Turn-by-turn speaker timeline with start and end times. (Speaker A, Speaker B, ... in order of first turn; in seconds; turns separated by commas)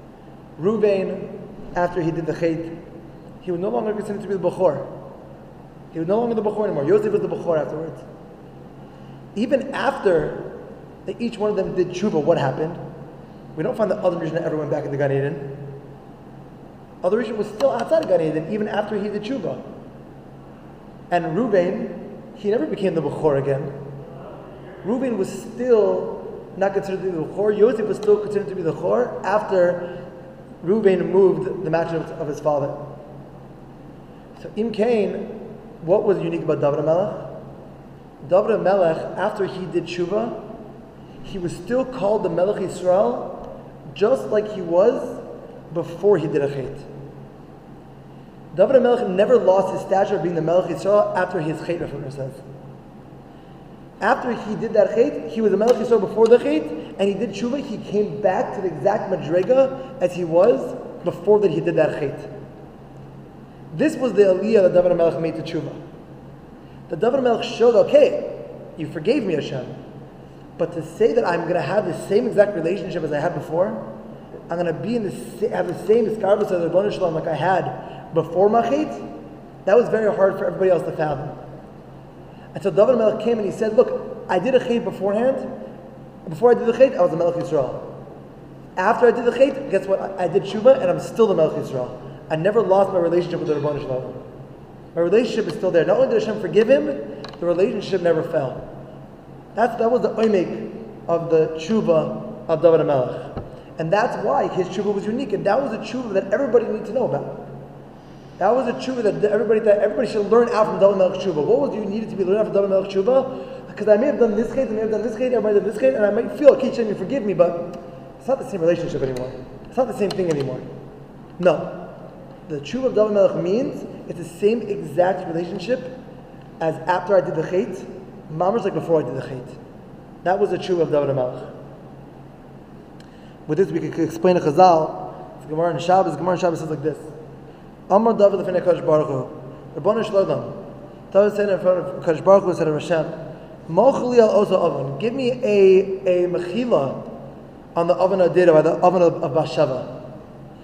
Speaker A: 0.6-2.8, Speaker A: 3.4-4.9, Speaker A: 5.9-8.0, Speaker A: 9.3-12.8, Speaker A: 13.5-15.6, Speaker A: 17.0-19.6, Speaker A: 21.1-23.8, Speaker A: 24.8-30.0, Speaker A: 30.6-32.8, Speaker A: 34.4-37.4, Speaker A: 38.2-40.4, Speaker A: 41.2-46.9, Speaker A: 48.5-52.4, Speaker A: 54.0-62.3, Speaker A: 63.7-65.8, Speaker A: 66.9-69.7, Speaker A: 70.6-73.9, Speaker A: 74.5-79.0, Speaker A: 79.6-81.4, Speaker A: 82.5-85.5, Speaker A: 86.2-87.9, Speaker A: 88.8-94.2, Speaker A: 94.9-98.6, Speaker A: 99.5-107.5, Speaker A: 108.4-120.7, Speaker A: 121.4-121.9, Speaker A: 122.5-125.9, Speaker A: 126.6-129.6, Speaker A: 130.2-131.5, Speaker A: 133.5-137.1, Speaker A: 137.9-140.6, Speaker A: 141.1-143.2, Speaker A: 143.7-147.1, Speaker A: 147.7-149.9